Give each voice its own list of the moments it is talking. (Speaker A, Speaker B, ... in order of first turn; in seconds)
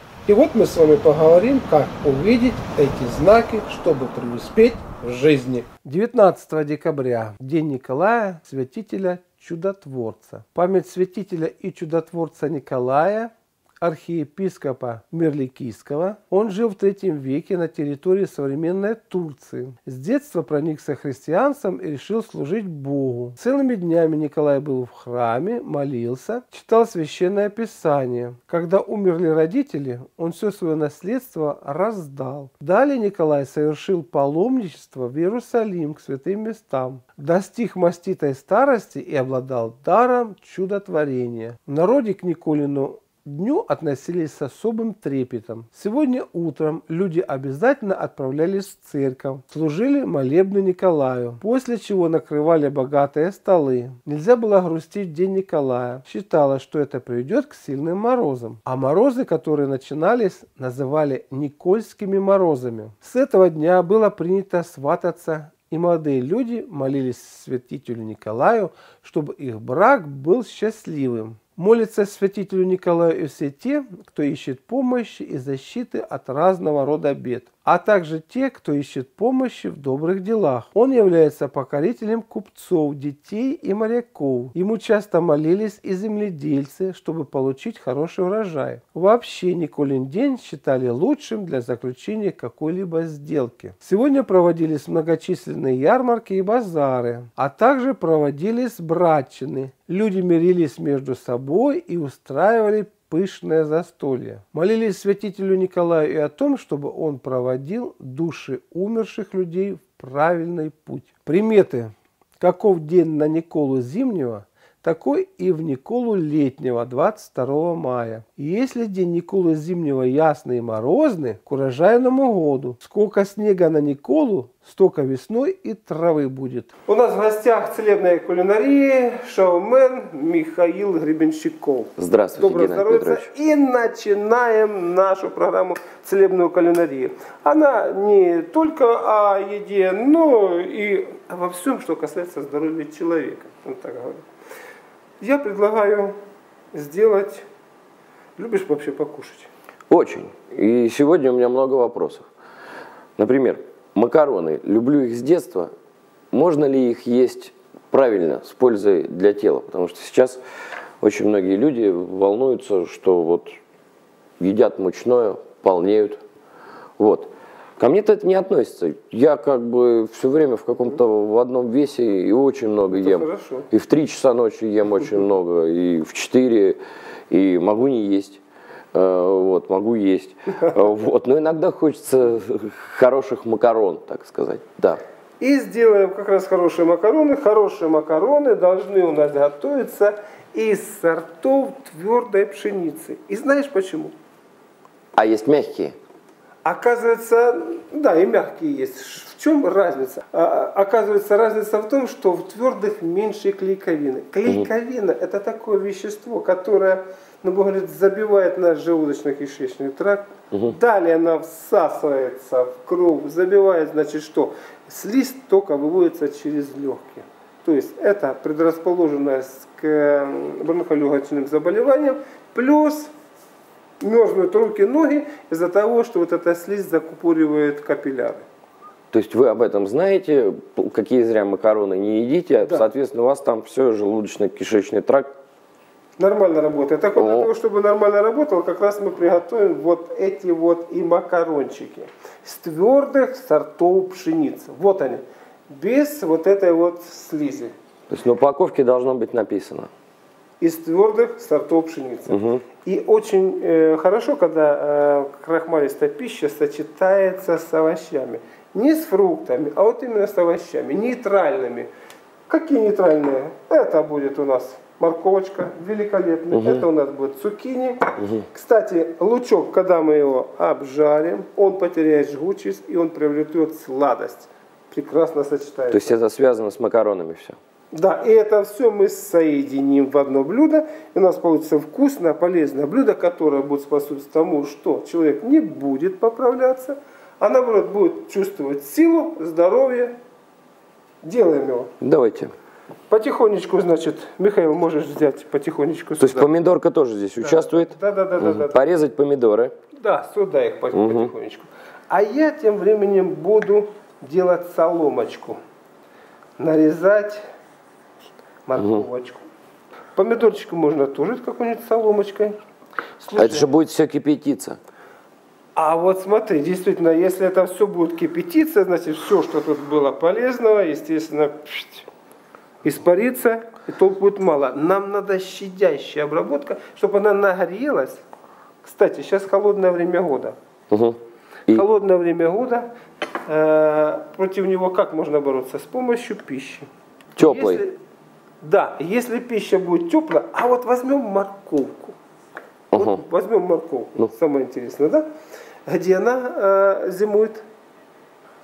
Speaker A: 0.2-13.3, 13.8-144.2, 145.2-146.1, 146.7-147.4, 148.4-149.5, 172.9-173.7, 185.4-194.1, 196.6-223.1, 224.0-228.4, 236.2-247.7, 250.6-261.9, 262.5-276.2, 277.9-290.1, 291.2-291.9, 293.1-296.5, 297.4-298.8, 300.0-305.6, 306.6-307.4, 308.6-309.4, 310.1-312.6, 313.2-313.7, 315.8-322.1, 322.8-328.2, 328.8-330.6, 331.7-332.9, 333.4-338.0, 338.6-342.2, 342.9-345.2, 345.9-347.6
Speaker B: 132.0-133.3, 149.9-152.2, 153.2-155.7, 156.3-160.4, 161.0-163.5, 164.4-166.2, 167.0-176.8, 177.3-178.4, 178.9-185.0, 195.1-195.9, 229.1-235.3, 237.2-237.5, 248.1-249.9, 252.3-252.6, 266.5-266.8, 268.2-268.4, 275.9-277.6, 292.0-292.5, 296.2-299.7, 300.9-301.3, 308.8-309.0, 313.4-314.8, 330.9-331.9, 337.4-337.8, 342.9-343.2